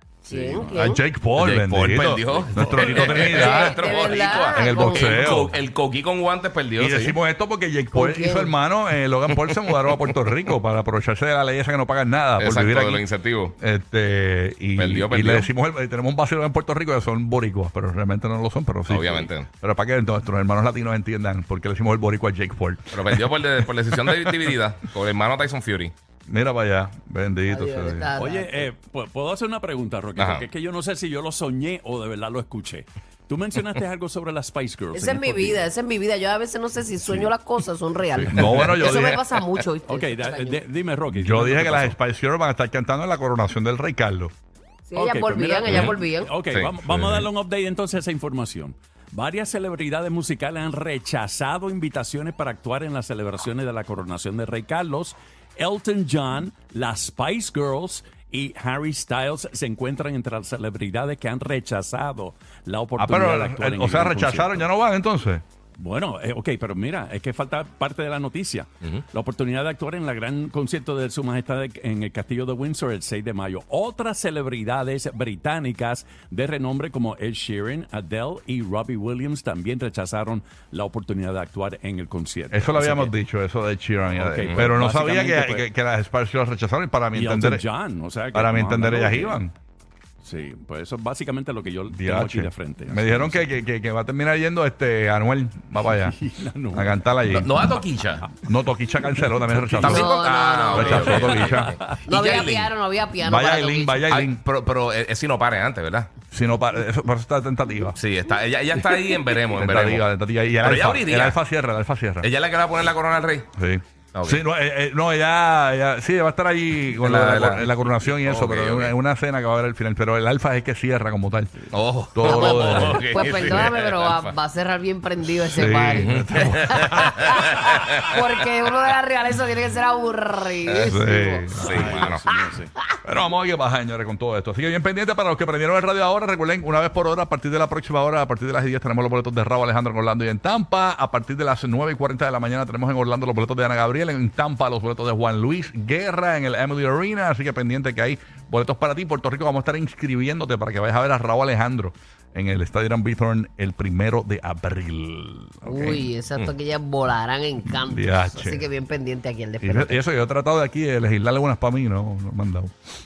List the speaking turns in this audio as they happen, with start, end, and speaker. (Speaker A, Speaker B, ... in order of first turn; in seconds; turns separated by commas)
Speaker A: 0.2-1.0, Speaker B: 0.3-0.7, Speaker C: 0.6-5.6, Speaker B: 1.4-7.2, Speaker A: 2.7-5.4, Speaker C: 6.8-13.1, Speaker A: 7.9-8.6, Speaker B: 9.5-10.1, Speaker B: 12.4-13.6, Speaker C: 13.6-23.2, Speaker B: 14.8-15.5, Speaker B: 18.9-19.5, Speaker B: 22.9-25.9, Speaker C: 26.3-28.1, Speaker A: 27.5-28.7, Speaker D: 28.2-35.6, Speaker B: 30.2-30.5, Speaker A: 34.9-40.6, Speaker B: 38.3-39.0, Speaker D: 38.3-38.6, Speaker C: 38.3-39.1, Speaker D: 39.9-42.0, Speaker C: 41.1-44.3, Speaker A: 44.9-46.3, Speaker D: 45.0-64.7, Speaker B: 45.7-46.0, Speaker B: 46.5-46.8, Speaker C: 46.8-47.3, Speaker C: 63.0-65.4, Speaker D: 65.8-83.1, Speaker C: 82.5-87.7, Speaker D: 84.1-85.7, Speaker D: 87.1-89.4, Speaker C: 88.3-89.5, Speaker D: 90.2-93.5, Speaker C: 91.9-96.2, Speaker D: 95.9-97.0, Speaker C: 96.7-97.5, Speaker B: 97.3-98.3, Speaker C: 98.4-100.1, Speaker D: 99.5-100.0, Speaker B: 99.8-102.7, Speaker A: 99.8-101.4, Speaker C: 100.7-101.7, Speaker D: 100.8-102.0, Speaker A: 102.1-104.0, Speaker C: 103.2-104.4, Speaker B: 104.1-106.1, Speaker C: 106.3-108.0, Speaker B: 108.0-110.1, Speaker C: 109.5-112.3, Speaker B: 110.6-111.4, Speaker B: 112.2-113.5, Speaker C: 113.6-123.7, Speaker B: 114.1-114.4, Speaker B: 117.0-119.0, Speaker B: 121.7-124.3, Speaker A: 122.2-131.7, Speaker C: 125.5-127.4, Speaker B: 126.0-128.2, Speaker C: 130.8-132.0, Speaker B: 131.6-132.2, Speaker D: 131.7-132.7, Speaker A: 132.3-132.8, Speaker C: 133.0-156.1, Speaker A: 155.7-160.0, Speaker C: 157.6-158.6, Speaker C: 159.6-162.7